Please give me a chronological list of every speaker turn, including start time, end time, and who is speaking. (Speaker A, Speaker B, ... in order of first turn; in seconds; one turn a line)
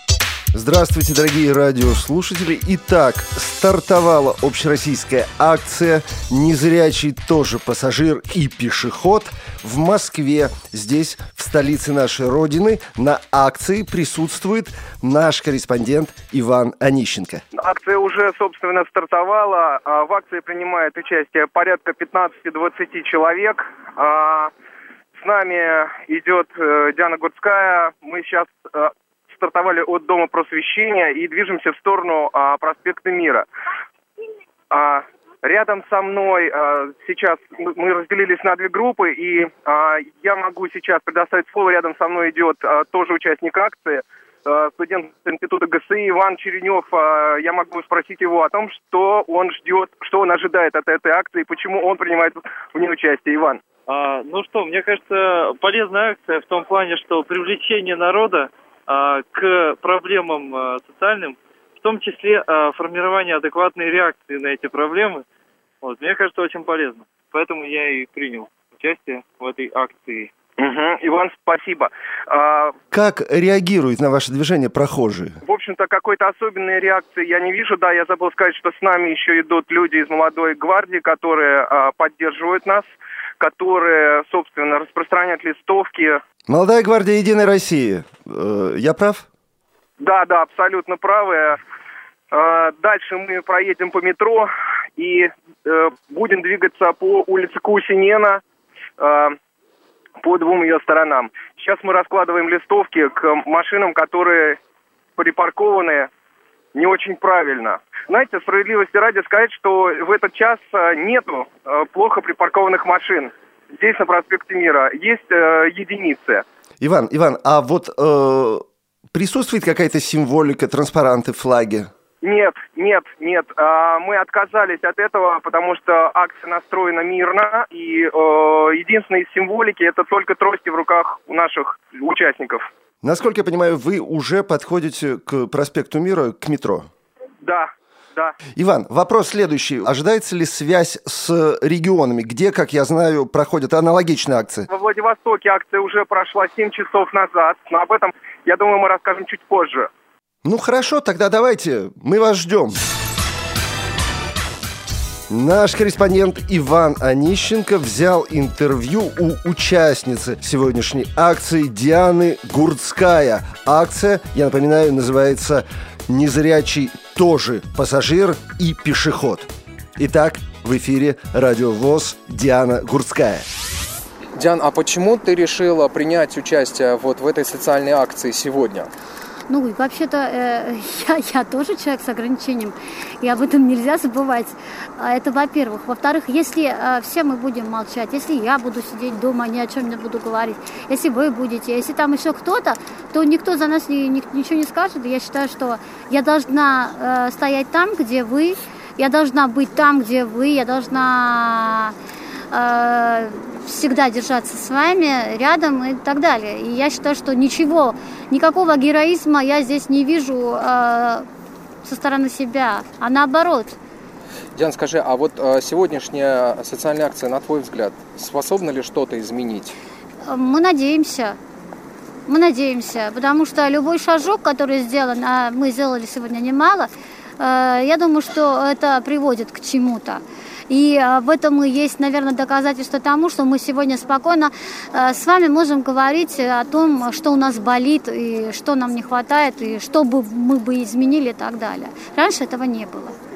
Speaker A: 0.5-17.4
Speaker B: 17.5-24.5
Speaker B: 25.1-33.5
Speaker B: 34.7-53.6
Speaker C: 53.9-65.2
Speaker C: 65.8-70.3
Speaker B: 70.6-72.8
Speaker A: 72.9-75.4
Speaker B: 75.4-82.9
Speaker B: 83.4-86.2
Speaker A: 86.5-89.3
Speaker B: 90.0-91.6
Speaker B: 92.3-98.4
Speaker B: 99.0-99.4
Speaker B: 100.2-104.6
Speaker B: 105.2-106.1
Speaker B: 106.8-116.5
Speaker A: 116.8-121.9
Speaker B: 122.2-132.7
Speaker A: 133.0-136.9
Speaker B: 137.4-138.3
Speaker A: 138.6-144.7
Speaker B: 144.7-149.9
Speaker A: 150.4-152.8
Speaker A: 155.3-173.5
Speaker D: 174.4-178.9
Speaker E: 179.5-202.0
Speaker E: 202.5-211.3
Speaker E: 211.8-213.8
Speaker D: 214.6-219.8
Speaker E: 220.2-221.4
Speaker E: 222.3-243.2